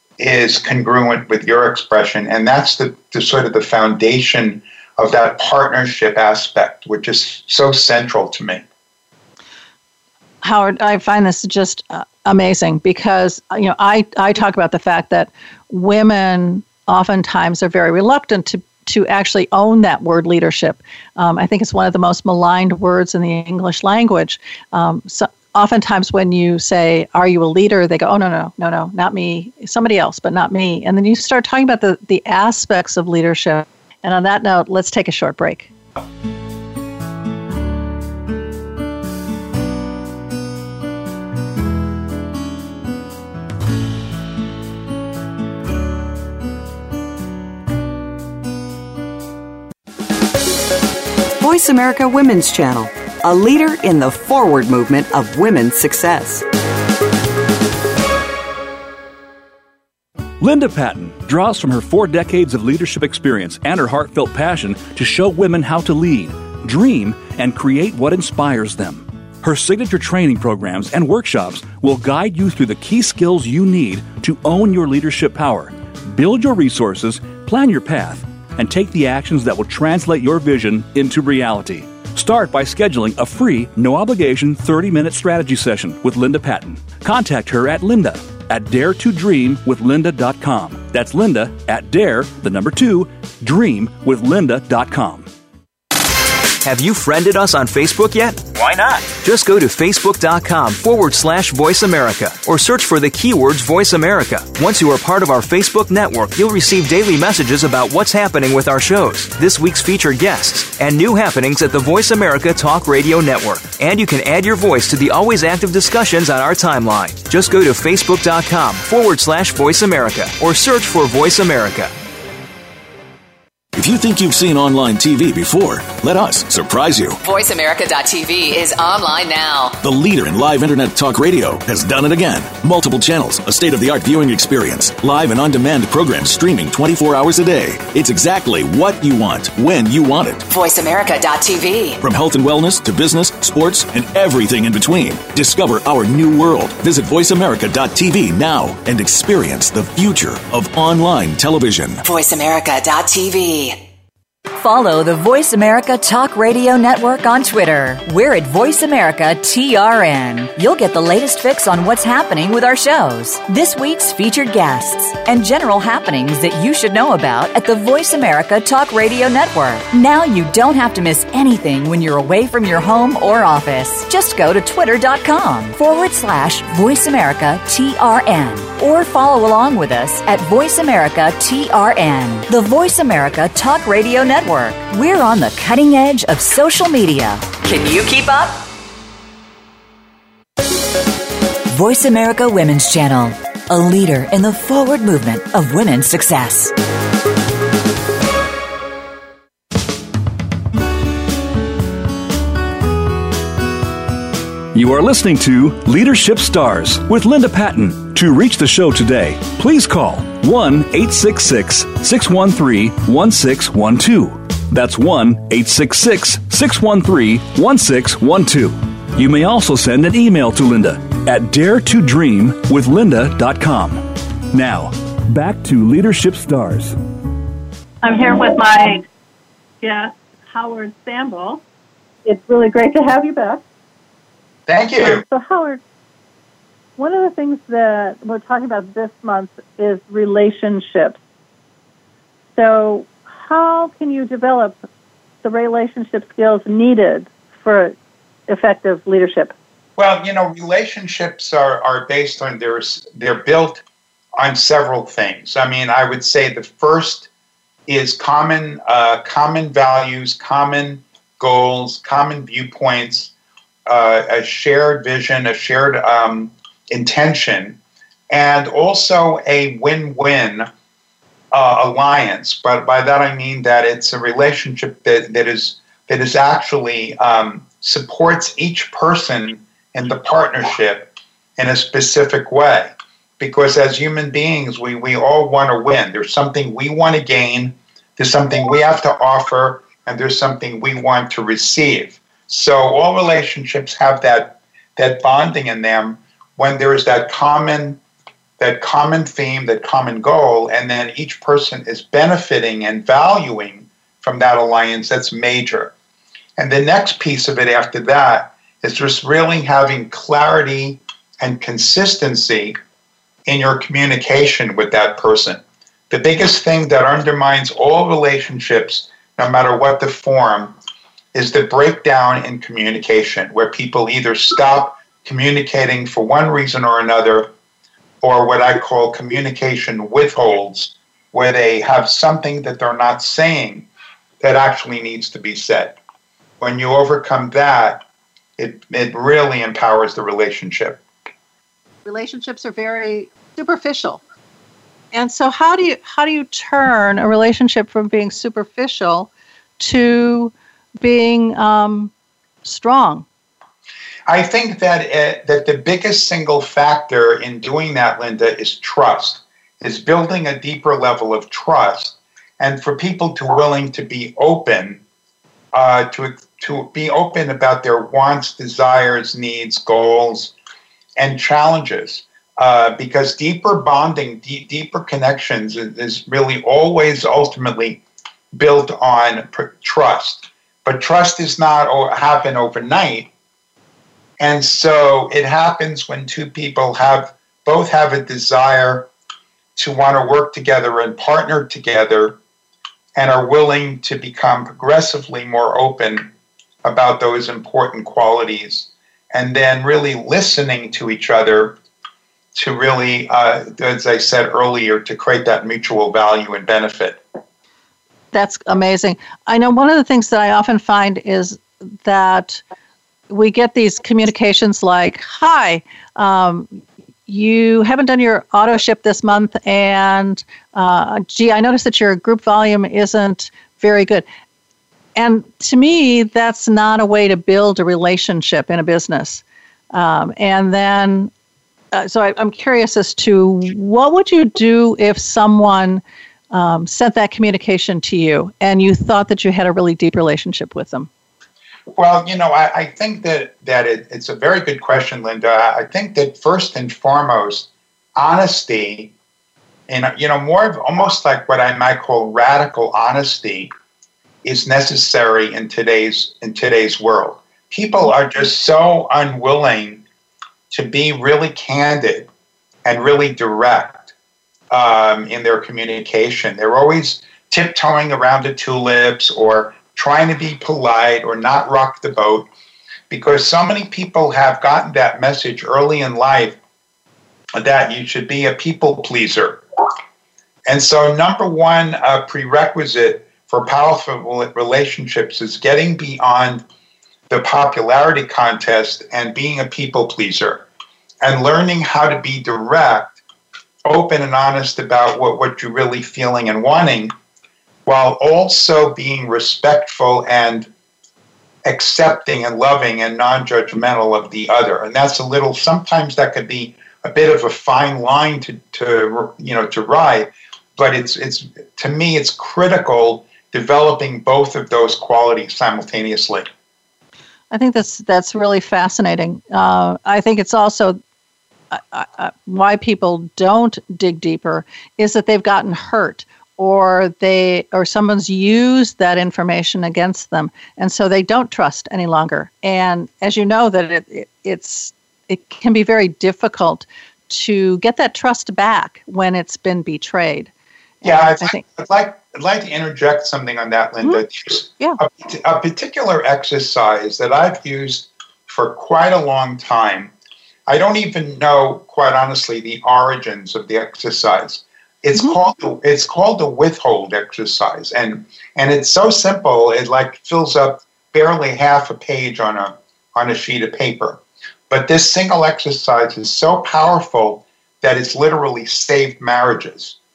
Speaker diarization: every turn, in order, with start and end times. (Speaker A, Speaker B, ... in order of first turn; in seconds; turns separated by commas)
Speaker A: 0.2-8.6, Speaker B: 10.4-35.7, Speaker C: 51.4-56.5, Speaker D: 60.4-95.3, Speaker E: 96.6-121.9, Speaker F: 98.6-99.1, Speaker F: 123.7-127.2, Speaker G: 127.2-129.8, Speaker F: 129.8-140.5, Speaker G: 140.5-142.0, Speaker F: 142.0-152.0, Speaker G: 152.0-153.8, Speaker H: 154.6-188.5, Speaker G: 187.6-188.1, Speaker H: 191.7-196.8, Speaker D: 204.7-227.0, Speaker B: 228.0-229.1, Speaker B: 229.8-231.6, Speaker B: 232.2-233.6, Speaker A: 234.7-235.2, Speaker B: 235.0-235.8, Speaker B: 237.0-241.2, Speaker B: 242.6-244.8, Speaker B: 245.4-247.9, Speaker B: 248.5-249.5, Speaker A: 250.0-253.8, Speaker A: 254.4-257.3, Speaker A: 257.9-263.3, Speaker A: 263.9-267.8, Speaker A: 268.3-270.7, Speaker A: 271.5-298.0, Speaker A: 298.6-305.9, Speaker A: 306.6-312.8, Speaker A: 313.5-320.8, Speaker A: 321.3-327.5, Speaker A: 328.2-333.9, Speaker A: 334.4-336.0, Speaker A: 336.6-338.1, Speaker A: 338.6-341.0, Speaker B: 342.1-344.2, Speaker B: 345.1-352.1, Speaker B: 352.6-353.2, Speaker A: 354.3-365.0, Speaker A: 365.7-370.5, Speaker A: 371.2-383.3, Speaker A: 384.4-389.1, Speaker A: 389.8-392.4, Speaker A: 393.1-396.3, Speaker A: 396.8-401.8, Speaker A: 402.6-407.2, Speaker B: 408.3-412.6, Speaker B: 413.3-424.2, Speaker B: 425.2-431.3, Speaker B: 431.9-441.1, Speaker A: 441.9-449.1, Speaker A: 449.9-453.7, Speaker A: 454.4-460.0, Speaker A: 460.7-462.3, Speaker A: 462.9-464.1, Speaker A: 464.7-472.5, Speaker A: 473.1-476.6, Speaker A: 477.5-479.6, Speaker A: 480.7-486.6, Speaker A: 487.3-490.6, Speaker A: 491.2-493.2, Speaker A: 493.9-497.1, Speaker A: 497.9-500.7, Speaker A: 501.6-516.5, Speaker B: 517.5-521.0, Speaker B: 521.7-540.5, Speaker B: 541.0-541.6, Speaker A: 541.0-550.1, Speaker A: 550.7-570.0